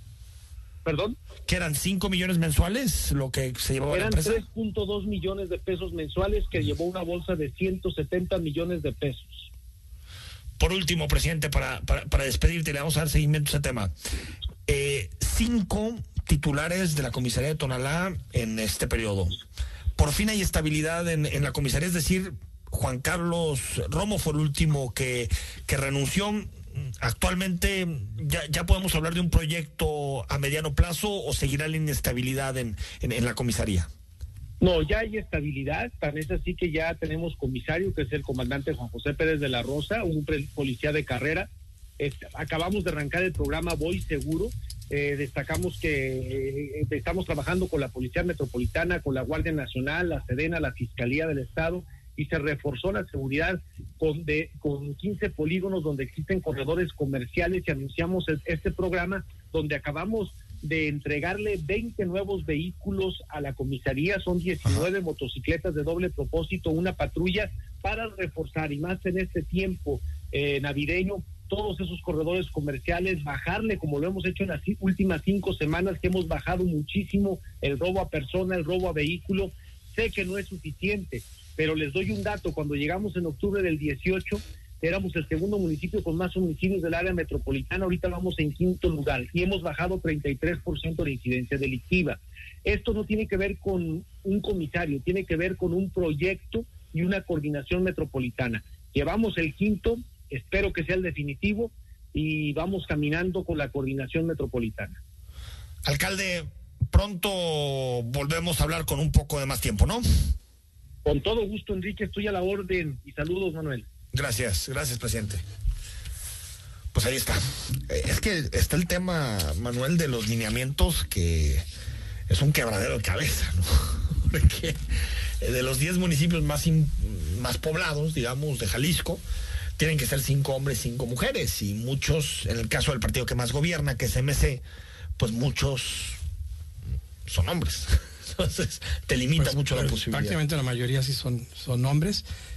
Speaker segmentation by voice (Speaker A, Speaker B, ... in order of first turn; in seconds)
Speaker A: 0.8-1.2, 3.9-9.5, 34.6-41.5, 42.0-105.0, 111.0-113.9
Speaker B: 1.4-4.4, 10.6-13.9, 14.7-19.4, 19.9-33.9, 105.8-110.3, 114.1-115.4, 116.9-121.7, 122.3-129.2, 129.8-134.6, 135.2-136.2, 137.2-140.4
Speaker C: 139.4-142.2